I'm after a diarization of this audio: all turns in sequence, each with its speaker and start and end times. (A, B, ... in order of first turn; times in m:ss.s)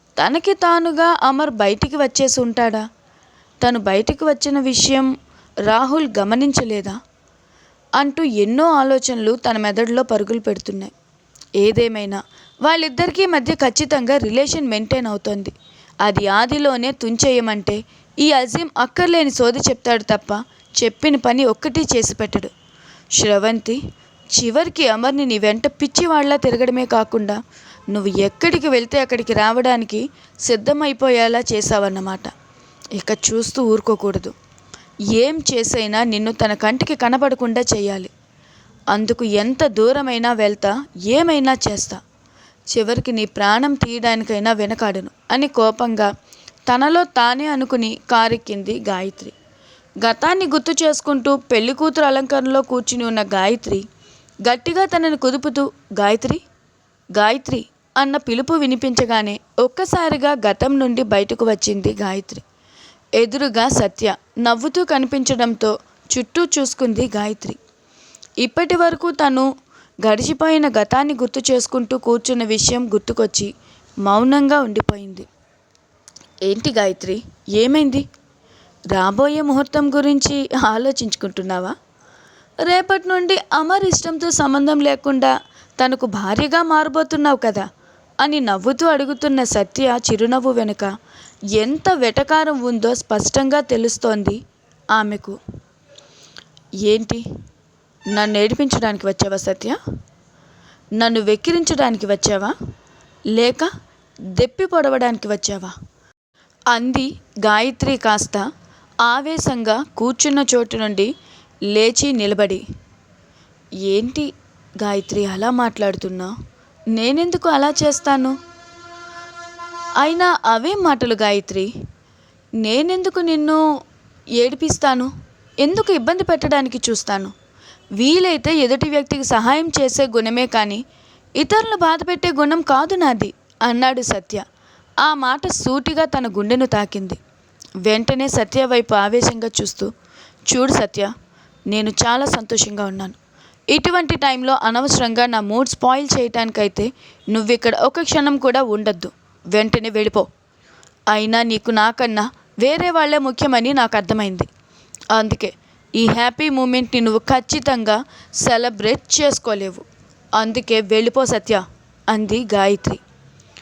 0:00.2-0:02.8 A
0:03.6-0:05.1 A
0:05.7-0:07.0 A
0:08.0-0:10.9 A
0:11.6-0:22.5 A
0:23.2-0:23.8 A
0:24.3-0:27.4 A
0:27.9-0:32.3 A
0:33.0-0:34.3 A
0:35.1-0:38.1 A
0:38.9-0:42.0 A
0:42.7-0:46.1 A
0:46.7-0:49.3 A
0:50.0-0:53.8 A
0:54.4-0:56.4 A
0:57.1-1:02.4 A
1:03.2-1:07.6 A
1:08.4-1:09.5 A
1:10.0-1:13.5 A
1:14.0-1:15.3 A
1:16.4-1:18.0 A
1:18.9-1:21.7 A
1:22.6-1:27.6 A
1:28.2-1:30.9 A
1:31.5-1:34.4 A
1:34.9-1:35.4 A
1:36.8-1:37.2 A
1:38.1-1:39.8 A
1:41.0-1:42.5 A
1:43.3-1:43.7 A
1:44.3-1:45.7 A
1:46.7-1:48.4 A
1:49.0-1:51.1 A
1:51.7-1:52.6 A
1:53.9-1:54.3 A
1:54.8-1:56.3 A
1:56.9-1:58.4 A
2:00.0-2:01.7 A
2:02.6-2:03.6 A
2:04.4-2:05.1 A
2:05.6-2:07.3 A
2:08.0-2:10.8 A
2:11.4-2:14.4 A
2:15.0-2:17.2 A
2:17.8-2:19.9 A
2:20.5-2:21.1 A
2:21.7-2:23.2 A
2:23.7-2:30.3 A
2:31.1-2:34.5 A
2:35.1-2:39.8 A
2:40.4-2:43.0 A